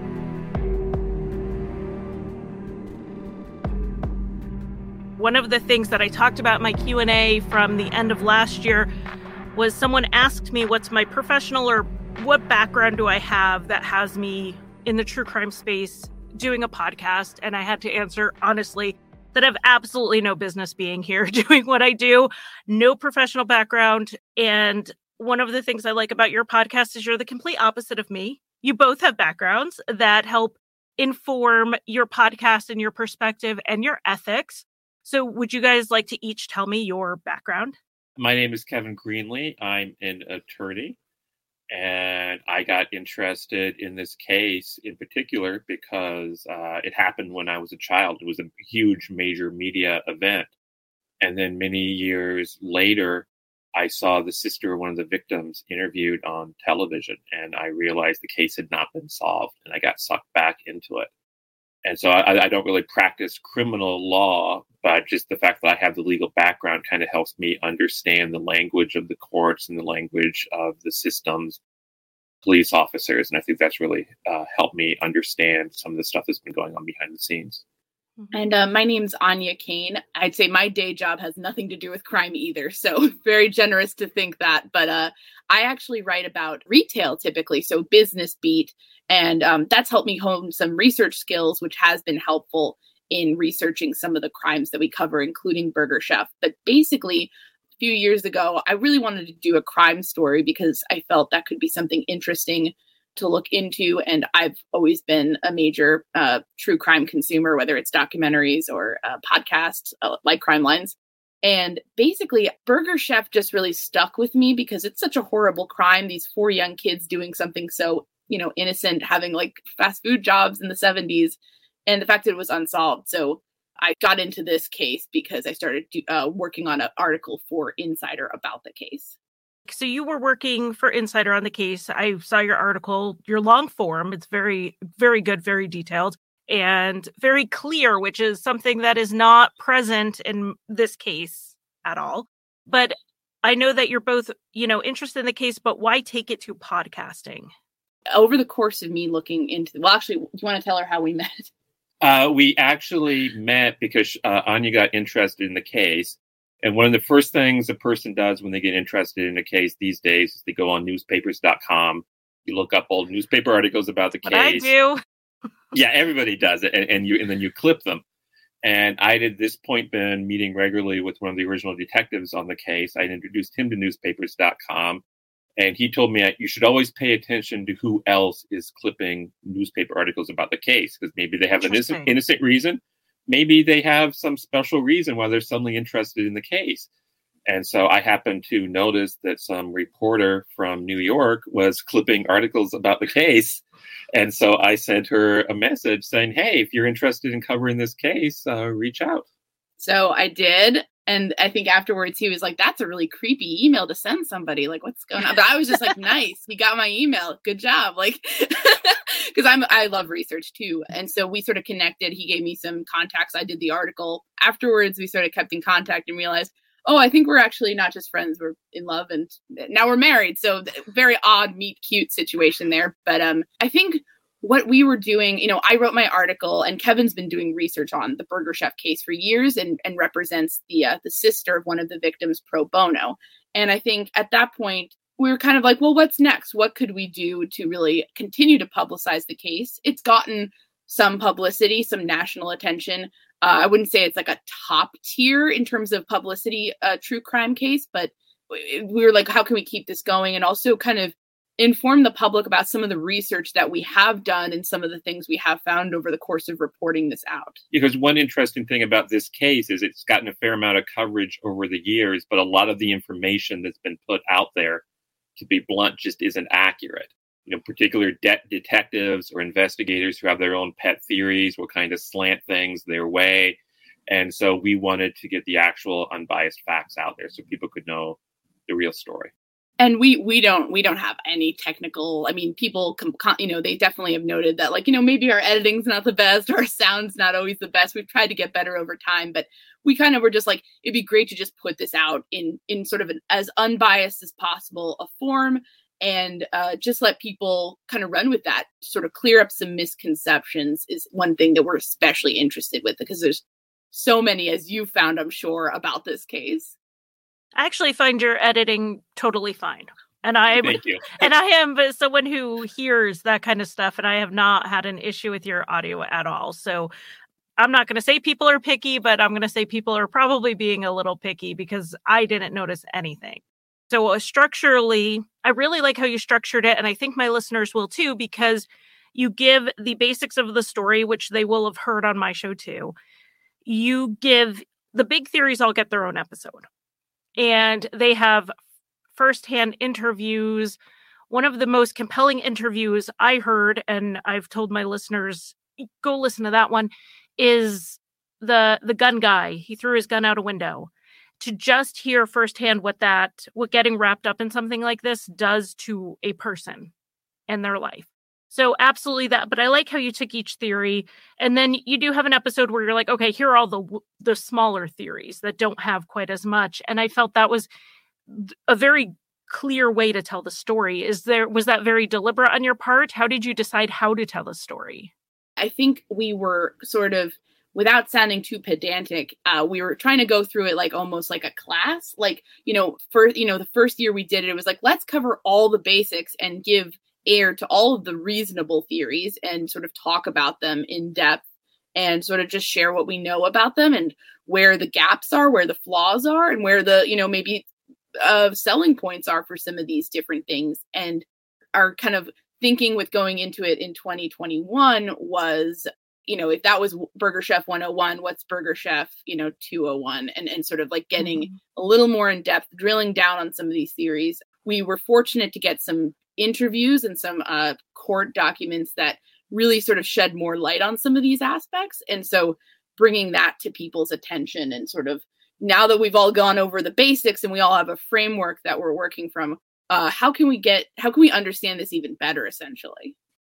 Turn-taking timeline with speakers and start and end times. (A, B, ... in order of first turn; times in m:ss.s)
0:05.2-0:08.9 A
0:09.5-0:37.8 A
0:38.2-0:41.0 B
0:41.7-0:50.5 B
0:51.2-1:01.1 B
1:01.8-1:11.6 B
1:12.4-1:17.6 B
1:18.3-2:09.1 C
2:09.7-2:27.5 A
2:28.1-2:31.5 C
2:32.0-2:44.7 B
2:44.2-2:45.0 A
2:45.7-2:48.0 B
2:48.6-2:55.0 B
2:55.6-3:06.9 B
3:01.6-3:02.1 A
3:07.5-3:13.6 B
3:14.1-3:19.2 B
3:19.8-4:17.6 C
4:17.7-4:24.8 B
4:25.4-4:39.3 B
4:39.8-5:06.8 C
5:07.6-5:16.9 A
5:10.6-5:11.3 B
5:17.6-5:32.9 A
5:33.6-5:36.7 A
5:37.4-5:38.5 A
5:39.1-5:40.8 A
5:41.3-5:56.9 A
5:57.5-6:07.7 A
6:08.3-6:15.1 A
6:15.6-6:31.4 C
6:31.9-6:37.6 C
6:38.2-7:13.1 C